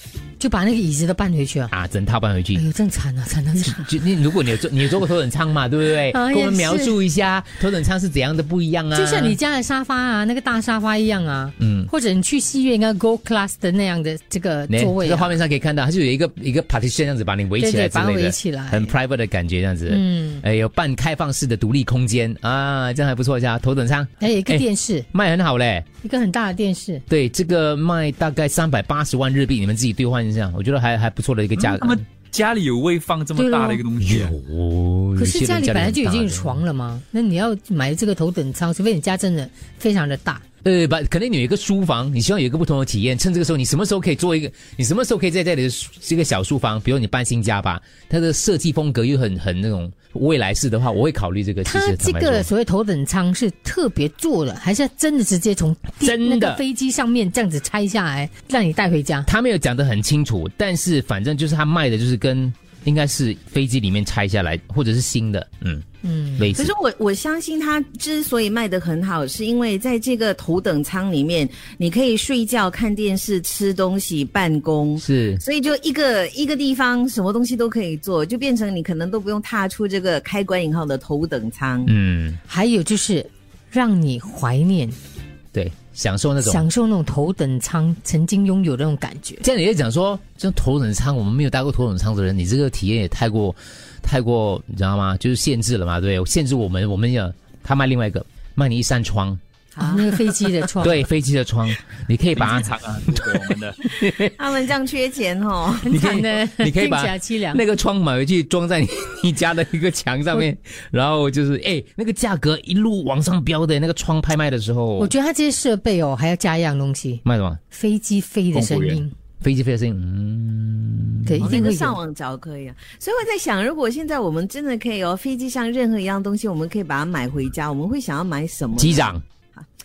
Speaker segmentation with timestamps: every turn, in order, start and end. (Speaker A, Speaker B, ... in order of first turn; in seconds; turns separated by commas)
Speaker A: 0.4-1.7, Speaker B: 1.7-2.6, Speaker A: 2.5-3.9, Speaker B: 3.6-9.4, Speaker A: 6.1-7.0, Speaker A: 8.9-15.4, Speaker B: 11.6-11.9, Speaker B: 14.7-25.9, Speaker A: 17.6-18.9, Speaker A: 19.9-20.4, Speaker A: 24.2-25.1, Speaker A: 26.0-27.0, Speaker B: 27.1-32.0, Speaker C: 31.6-34.4, Speaker A: 33.4-33.8, Speaker B: 34.0-36.6, Speaker A: 35.2-40.4, Speaker B: 40.6-52.5, Speaker A: 51.6-59.3, Speaker B: 56.0-56.6, Speaker B: 59.2-65.8, Speaker A: 66.0-66.5, Speaker B: 66.4-66.7, Speaker D: 66.5-81.9, Speaker B: 75.0-75.4, Speaker B: 81.8-82.4, Speaker A: 82.5-85.0, Speaker B: 85.5-86.7, Speaker A: 86.4-89.4, Speaker B: 89.4-99.4, Speaker D: 99.7-100.5, Speaker A: 99.8-101.1, Speaker B: 100.8-104.3, Speaker C: 102.3-103.8, Speaker D: 104.2-106.2, Speaker A: 105.8-107.6, Speaker B: 105.9-115.1, Speaker A: 115.0-119.1, Speaker B: 117.2-117.6, Speaker C: 118.5-119.0, Speaker B: 119.4-121.7, Speaker A: 121.2-122.0, Speaker D: 121.4-129.7, Speaker B: 128.8-129.2